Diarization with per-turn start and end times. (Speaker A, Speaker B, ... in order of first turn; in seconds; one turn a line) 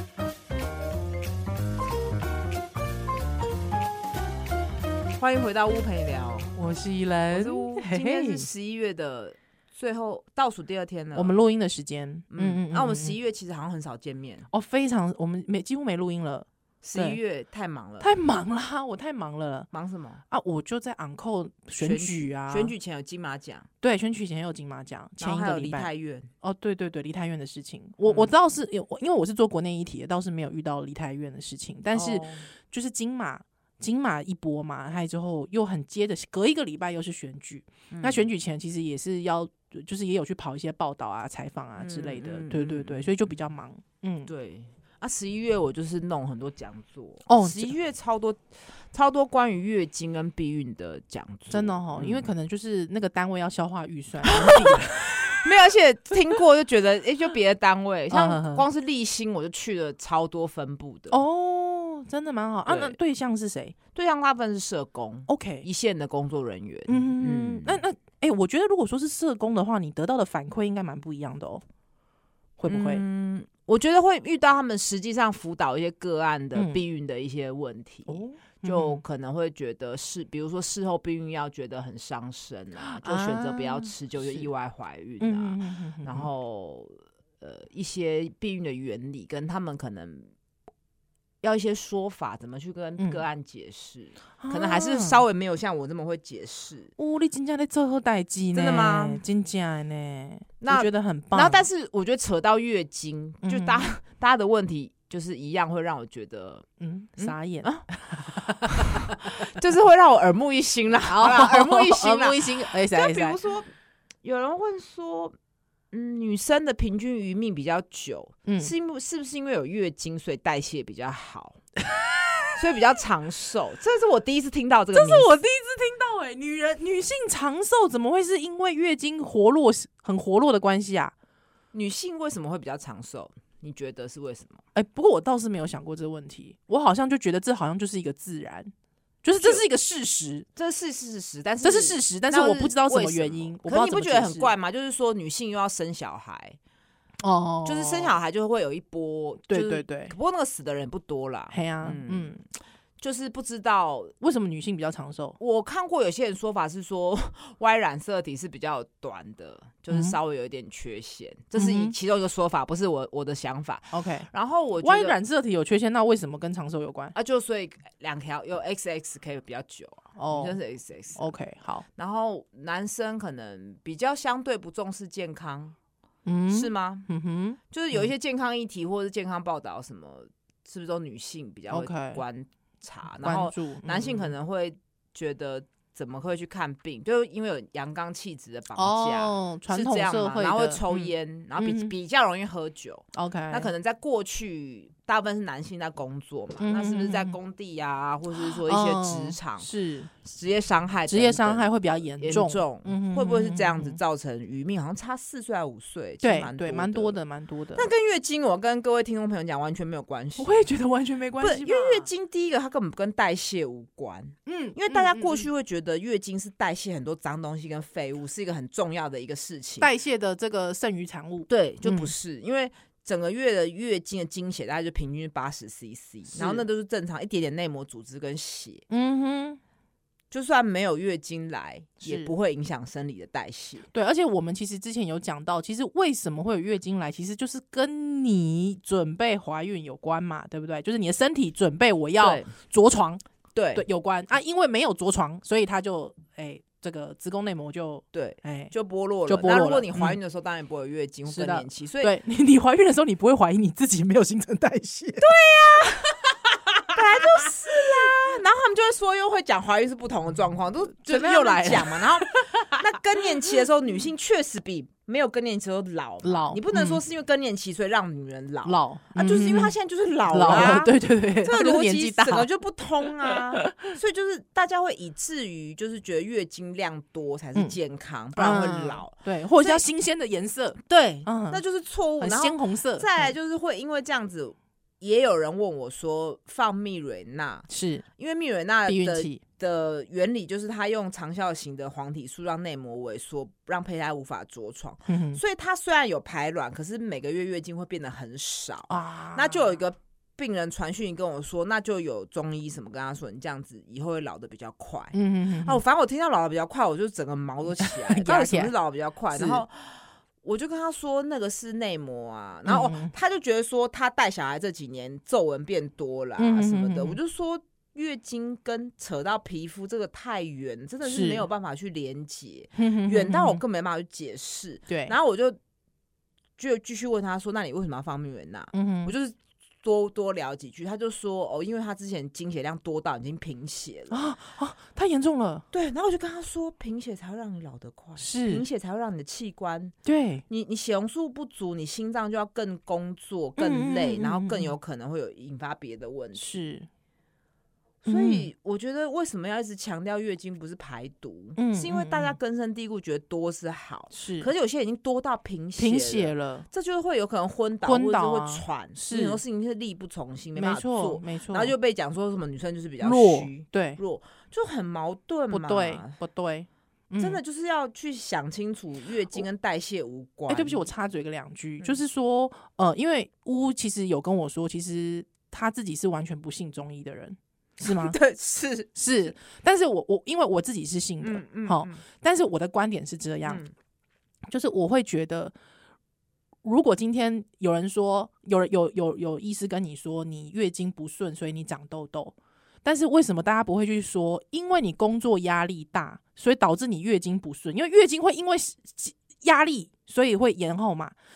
Speaker A: 5.2-6.5
Speaker B: 6.6-8.5
Speaker A: 7.3-11.4
Speaker B: 11.2-13.2
Speaker A: 12.3-14.5
Speaker B: 14.5-17.2
Speaker A: 16.8-18.1
Speaker B: 18.0-19.7
Speaker A: 19.7-20.2
Speaker B: 20.3-22.7
Speaker A: 21.8-23.7
Speaker B: 23.8-25.9
Speaker A: 25.2-26.3
Speaker B: 26.4-44.3
Speaker A: 28.0-28.3
Speaker A: 31.9-32.5
Speaker A: 37.9-38.3
Speaker A: 41.8-43.1
Speaker A: 44.3-52.3
Speaker B: 47.3-47.8
Speaker B: 51.5-55.4
Speaker A: 54.3-61.2
Speaker B: 58.1-58.7
Speaker B: 61.1-63.8
Speaker A: 62.6-63.0
Speaker A: 63.9-67.8
Speaker B: 65.3-65.7
Speaker B: 66.9-71.6
Speaker B: 72.6-73.0
Speaker A: 72.7-90.3
Speaker B: 76.5-76.8
Speaker B: 78.1-79.0
Speaker B: 82.8-84.5
Speaker B: 85.2-86.3
Speaker A: 91.4-96.9
Speaker B: 93.0-93.2
Speaker B: 94.4-95.2
Speaker B: 97.0-101.6
Speaker A: 98.5-99.2
Speaker A: 100.6-106.7
Speaker B: 103.4-103.9
Speaker B: 106.8-109.5
Speaker A: 107.2-107.7
Speaker A: 108.6-113.7
Speaker B: 111.1-113.4
Speaker A: 114.2-115.4
Speaker A: 115.9-121.6
Speaker B: 118.5-118.7
Speaker B: 121.9-122.6
Speaker A: 122.6-125.3
Speaker B: 124.9-131.1
Speaker A: 131.7-134.6
Speaker B: 134.7-138.7
Speaker B: 139.2-140.5
Speaker A: 140.6-146.6
Speaker B: 141.6-144.5
Speaker B: 147.2-148.2
Speaker A: 147.7-152.3
Speaker B: 149.5-150.2
Speaker B: 151.5-152.4
Speaker A: 153.0-154.1
Speaker B: 154.2-155.4
Speaker A: 155.4-165.2
Speaker B: 161.6-161.9
Speaker B: 163.9-164.3
Speaker B: 164.8-167.2
Speaker A: 167.2-171.3
Speaker B: 170.2-170.6
Speaker B: 171.2-171.9
Speaker A: 172.0-175.8
Speaker B: 176.3-178.1
Speaker A: 176.5-177.1
Speaker A: 177.7-199.7
Speaker B: 181.7-182.2
Speaker B: 183.2-184.3
Speaker B: 188.8-191.9
Speaker B: 193.1-193.7
Speaker B: 196.6-197.4
Speaker B: 198.4-200.1
Speaker A: 200.2-207.2
Speaker B: 201.1-204.0
Speaker B: 206.2-207.9
Speaker A: 207.8-210.7
Speaker B: 210.4-212.1
Speaker A: 211.4-219.9
Speaker B: 214.5-215.5
Speaker B: 219.8-222.1
Speaker A: 221.5-228.8
Speaker B: 226.3-226.7
Speaker B: 228.9-229.6
Speaker A: 230.3-233.9
Speaker B: 232.0-232.3
Speaker B: 233.9-243.2
Speaker A: 242.2-242.5
Speaker A: 243.6-243.8
Speaker B: 243.8-248.7
Speaker A: 248.1-252.1
Speaker B: 249.3-250.2
Speaker B: 251.3-257.5
Speaker A: 255.2-256.2
Speaker A: 256.9-279.9
Speaker B: 261.0-263.2
Speaker B: 266.2-267.0
Speaker B: 268.6-269.7
Speaker B: 270.3-272.5
Speaker B: 273.2-273.9
Speaker B: 278.4-281.6
Speaker A: 280.9-325.6
Speaker B: 282.2-283.3
Speaker B: 287.7-288.1
Speaker B: 288.9-289.4
Speaker B: 295.1-295.4
Speaker B: 298.9-299.8
Speaker B: 305.1-305.8
Speaker B: 307.8-308.7
Speaker B: 309.3-309.6
Speaker B: 312.7-313.1
Speaker B: 316.4-317.2
Speaker B: 321.1-321.4
Speaker B: 322.8-323.6
Speaker B: 324.9-325.1
Speaker A: 326.6-334.3
Speaker B: 328.7-329.1
Speaker B: 334.1-335.6
Speaker A: 335.7-339.9
Speaker B: 338.2-338.6
Speaker B: 340.1-340.4
Speaker A: 340.5-346.6
Speaker B: 343.6-344.7
Speaker B: 346.4-346.9
Speaker A: 348.0-366.1
Speaker B: 348.1-348.5
Speaker B: 351.6-352.4
Speaker B: 354.1-354.5
Speaker B: 355.8-356.7
Speaker B: 357.9-359.4
Speaker B: 360.6-361.8
Speaker B: 363.0-364.0
Speaker B: 365.5-367.4
Speaker A: 367.2-370.9
Speaker B: 370.5-378.2
Speaker A: 377.8-379.0
Speaker B: 378.9-383.6
Speaker A: 381.2-382.0
Speaker A: 383.4-383.7
Speaker B: 384.5-385.5
Speaker B: 386.6-401.1